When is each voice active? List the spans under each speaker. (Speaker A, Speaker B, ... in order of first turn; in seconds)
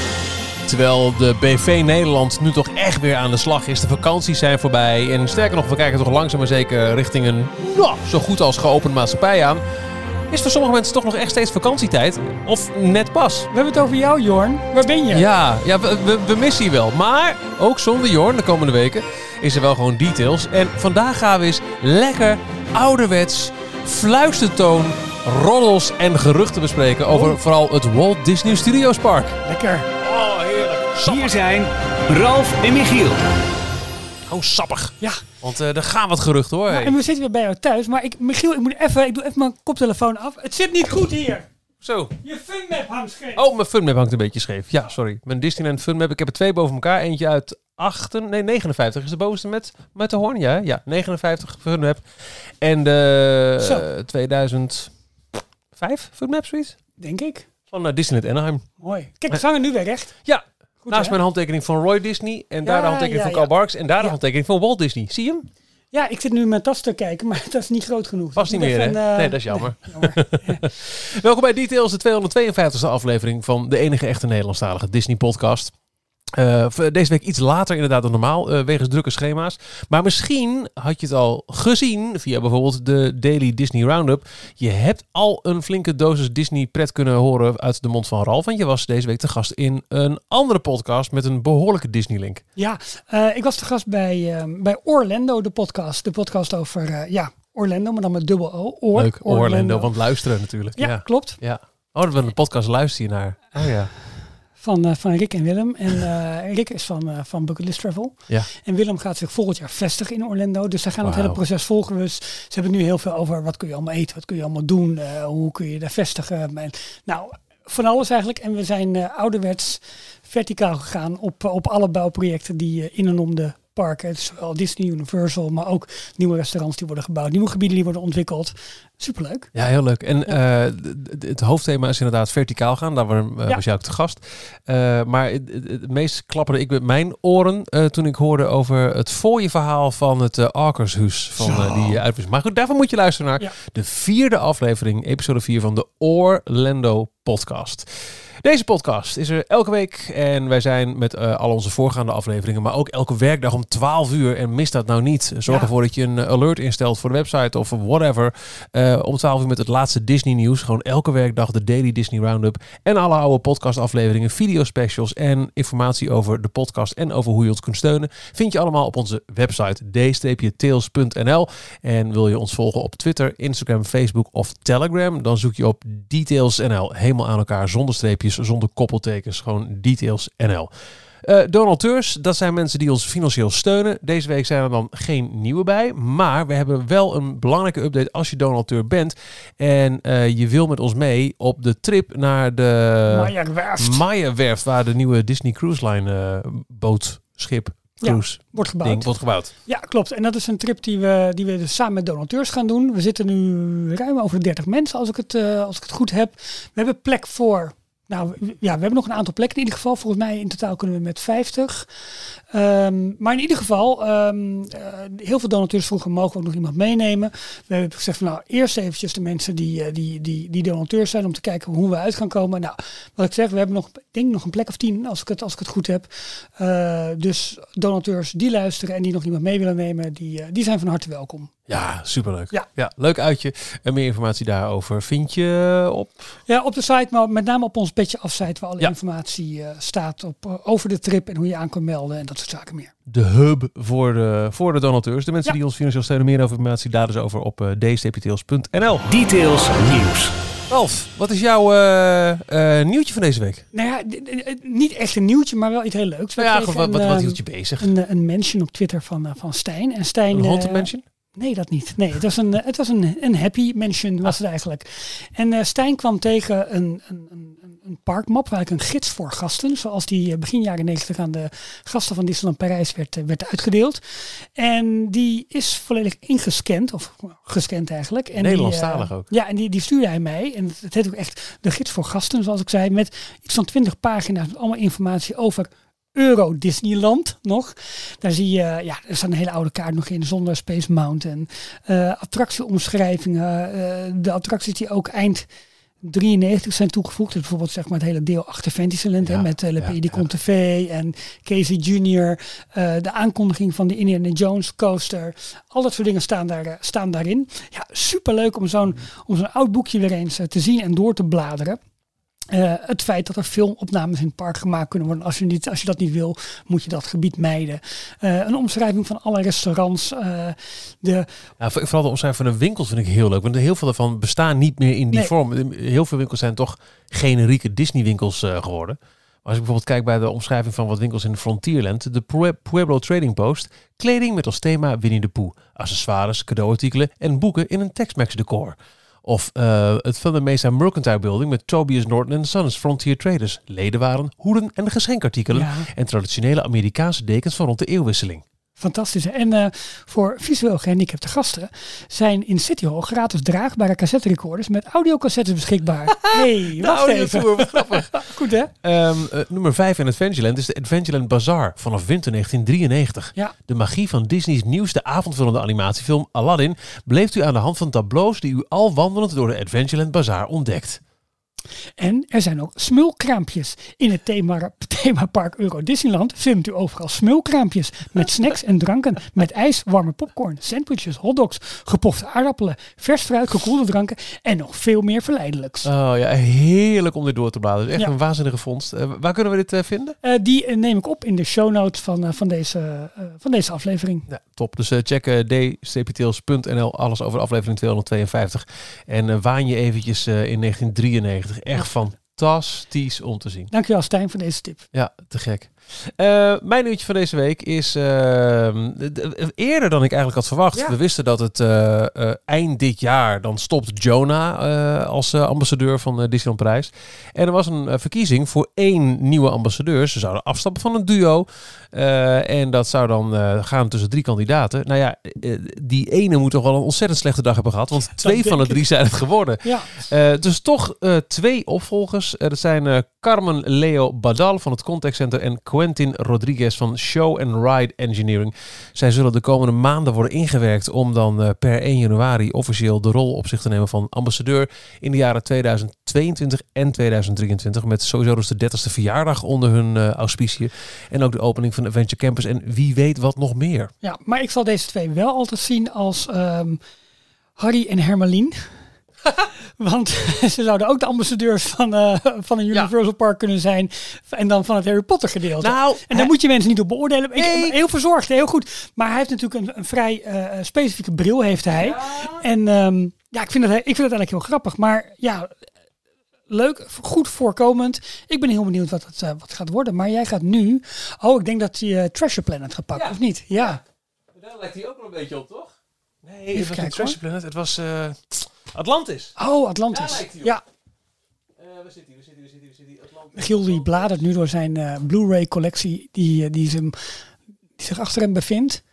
Speaker A: 0.7-9.6, 10.3-13.5, 15.1-29.4, 30.0-31.3, 34.3-37.0, 41.8-42.1, 43.3-54.9, 55.7-56.8, 57.7-58.7, 60.2-65.5, 68.3-75.7, 76.3-92.4, 98.9-103.9, 111.0-111.4, 129.5-180.7, 181.2-199.5, 231.7-236.3, 243.1-249.0, 250.7-253.6, 256.4-257.9, 260.3-261.0, 278.4-279.3, 299.2-300.2, 321.6-348.4, 356.1-358.3, 358.8-371.0, 385.8-390.1, 394.3-403.7, 404.9-453.9, 465.6-466.3, 467.4-467.8, 471.7-472.4, 482.9-483.8, 484.3-489.4, 489.9-490.5, 491.6-494.1
Speaker B: 13.5-15.3, 27.1-27.4, 29.4-29.9, 36.7-41.5, 42.2-43.4, 53.6-53.9, 57.0-57.5, 58.8-60.1, 60.8-61.2, 62.6-64.2, 65.9-70.6, 92.6-99.9, 100.8-101.4, 104.5-129.5, 193.1-194.0, 198.0-199.1, 199.6-211.9, 212.5-231.5, 236.5-242.9, 253.7-295.4, 296.0-311.8, 312.5-321.3, 345.5-345.9, 348.8-358.7, 372.0-385.9, 390.2-394.3, 403.7-404.8, 428.1-428.8, 429.6-430.1, 454.0-456.8, 457.6-458.8, 459.8-475.6, 476.5-483.8, 486.5-487.2, 489.4-490.6, 493.3-498.8
Speaker C: 31.0-33.2, 249.1-250.3